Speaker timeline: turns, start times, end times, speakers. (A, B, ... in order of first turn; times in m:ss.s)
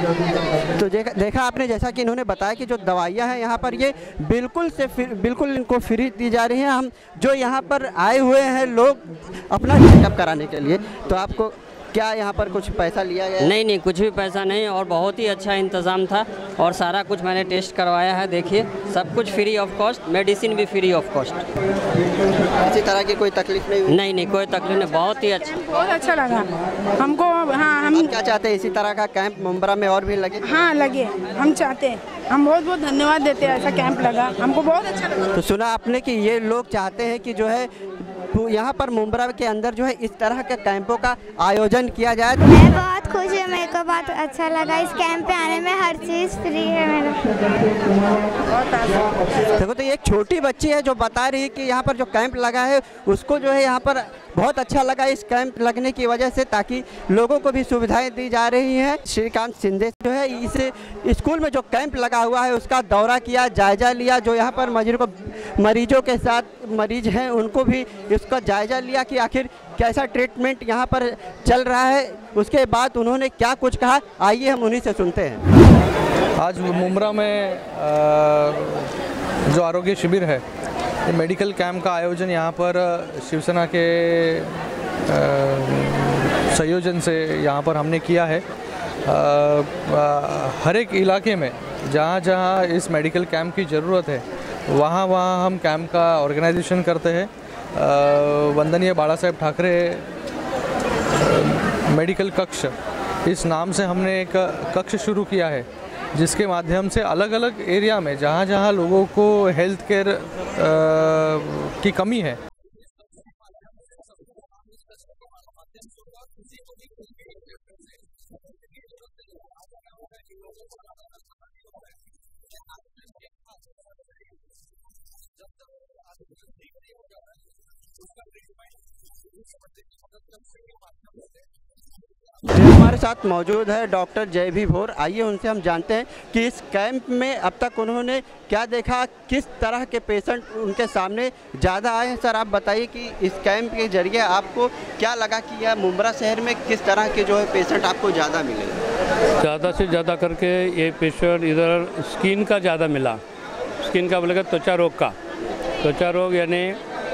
0:00.8-0:13.6 A
0:13.4-0:21.4 B
0:22.5-0:24.0 A
0:23.9-0:25.6 B
0:25.4-0:28.1 C
0:27.9-0:30.4 A
0:30.4-0:35.2 C
0:35.3-0:42.5 A
0:42.4-0:47.2 D
0:49.3-1:15.4 A
1:16.4-1:18.9 E
1:19.5-1:20.4 E
1:21.1-1:28.4 E
1:29.0-1:40.0 E
1:41.2-1:52.4 E
2:12.5-2:28.8 A
2:29.4-2:33.2 F
2:33.8-2:35.1 F
2:35.8-2:36.8 F